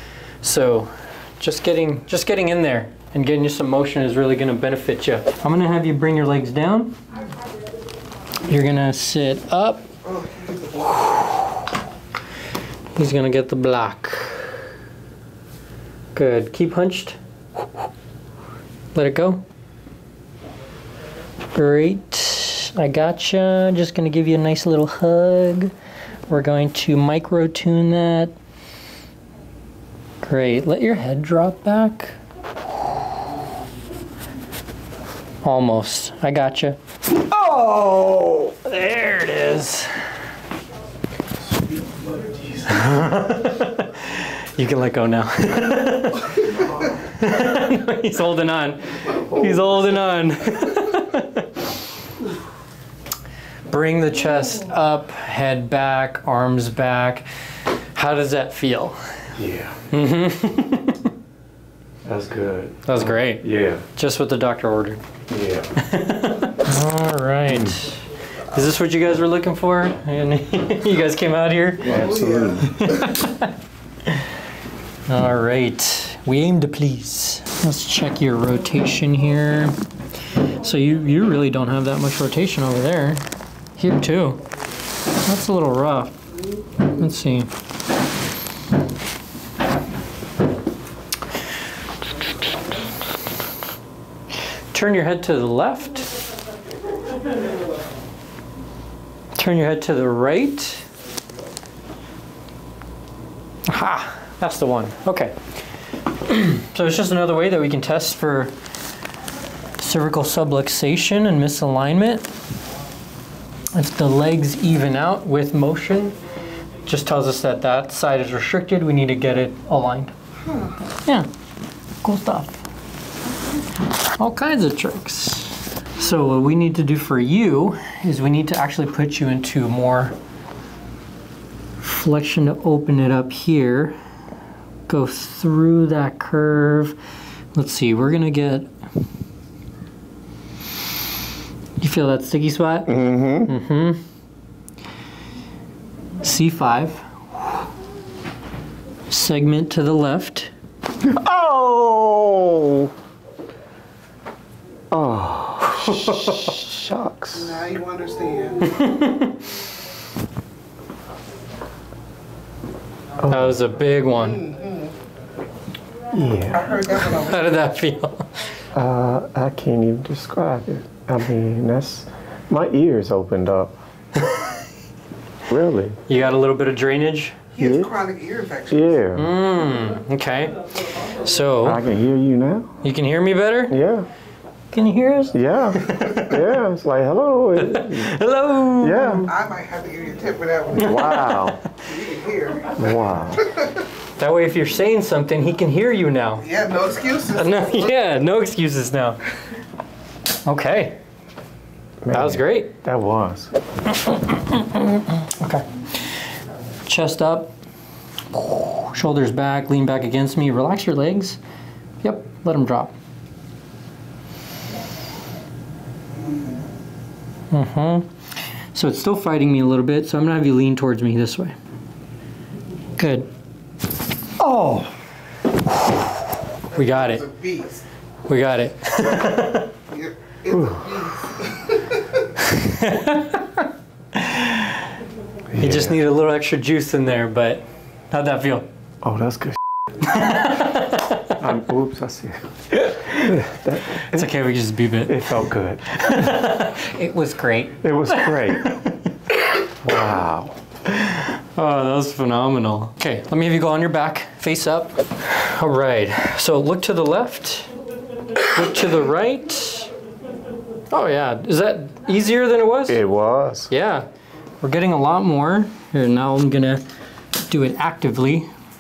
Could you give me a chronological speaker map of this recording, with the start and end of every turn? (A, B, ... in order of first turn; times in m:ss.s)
0:00.4-0:07.0 A
0:08.4-0:09.8 A
0:10.0-0:11.1 B
0:13.0-0:14.6 A
0:16.1-0:17.2 A
0:19.0-0:19.4 A
0:21.5-0:25.7 A
0:26.3-0:28.3 A
0:30.2-0:32.1 A
0:35.4-0:36.8 A
0:37.3-0:38.4 C
0:38.5-0:39.9 A
0:42.4-0:42.8 C
0:42.7-0:46.5 A
0:46.5-0:46.9 C
0:47.2-0:51.5 A
0:53.7-0:57.2 A
0:58.0-0:59.0 A
0:59.4-0:59.8 C
0:59.9-1:01.1 A
1:02.0-1:03.8 C
1:02.9-1:05.0 A
1:05.3-1:05.7 C
1:05.8-1:08.0 A
1:08.5-1:11.9 A
1:11.8-1:12.8 C
1:11.8-1:13.1 B
1:12.6-1:13.5 A
1:14.0-1:14.3 A
1:15.1-1:19.8 A
1:20.4-1:23.2 A
1:23.8-1:24.4 A
1:25.2-1:26.1 A
1:27.0-1:27.5 A
1:34.7-1:36.1 A
1:39.4-1:40.9 A
1:43.7-1:45.4 A
1:46.2-1:48.5 A
1:49.8-1:52.3 A
1:53.7-1:56.2 A
1:56.9-2:00.1 A
2:00.4-2:00.8 B
2:02.0-2:02.6 A
2:04.2-2:10.1 A
2:11.8-2:14.0 A
2:14.9-2:17.0 A
2:17.5-2:18.7 A
2:21.8-2:24.0 A
2:22.9-2:23.5 C
2:26.2-2:27.0 A
2:29.1-2:30.5 A
2:31.1-2:32.9 C
2:34.9-2:37.6 C
2:36.0-2:36.2 A
2:37.4-2:38.8 B
2:38.7-2:39.3 A
2:43.2-2:43.6 C
2:43.3-2:44.4 A
2:44.2-2:45.0 B
2:46.1-2:46.8 C
2:46.5-2:47.5 B
2:46.9-2:48.3 A
2:48.7-2:53.8 C
2:55.5-2:56.0 C
2:56.1-2:57.4 A
2:57.6-2:59.0 B
2:57.6-2:57.9 C
2:58.7-2:59.3 C
2:59.2-3:00.5 A
3:01.2-3:01.8 A
3:01.6-3:02.7 C
3:02.8-3:03.8 A
3:03.7-3:04.1 C
3:04.7-3:06.6 A
3:05.3-3:08.2 C
3:07.6-3:09.3 A
3:08.8-3:09.3 C
3:09.2-3:11.2 B
3:10.8-3:11.6 C
3:10.8-3:11.6 A
3:11.8-3:13.8 B
3:12.7-3:13.5 C
3:14.2-3:16.5 A
3:16.4-3:17.9 B
3:17.3-3:19.2 A
3:20.5-3:21.0 A
3:22.0-3:23.5 C
3:22.1-3:22.7 A
3:23.9-3:26.1 A
3:26.9-3:27.5 A
3:28.3-3:31.4 A
3:32.0-3:32.9 A
3:37.5-3:38.1 A
3:38.7-3:41.6 A
3:43.0-3:43.3 A
3:44.4-3:44.9 A
3:45.7-3:46.1 A
3:46.7-3:47.8 B
3:46.7-3:47.2 A
3:48.3-3:49.7 A
3:49.9-3:52.2 B
3:50.5-3:51.0 C
3:52.4-3:53.6 A
3:54.1-3:54.8 A
3:55.5-3:56.0 C
3:55.6-3:58.7 A
3:59.0-3:59.6 C
4:00.1-4:01.3 A
4:01.4-4:02.5 C
4:03.0-4:04.3 C
4:04.0-4:05.3 A
4:05.1-4:06.3 C
4:05.9-4:08.8 A
4:07.8-4:08.8 C
4:09.8-4:10.6 C
4:10.9-4:17.7 A
4:18.4-4:19.9 A
4:20.9-4:23.0 A
4:22.9-4:23.7 C
4:23.7-4:24.1 A
4:24.6-4:26.8 A
4:27.5-4:28.5 A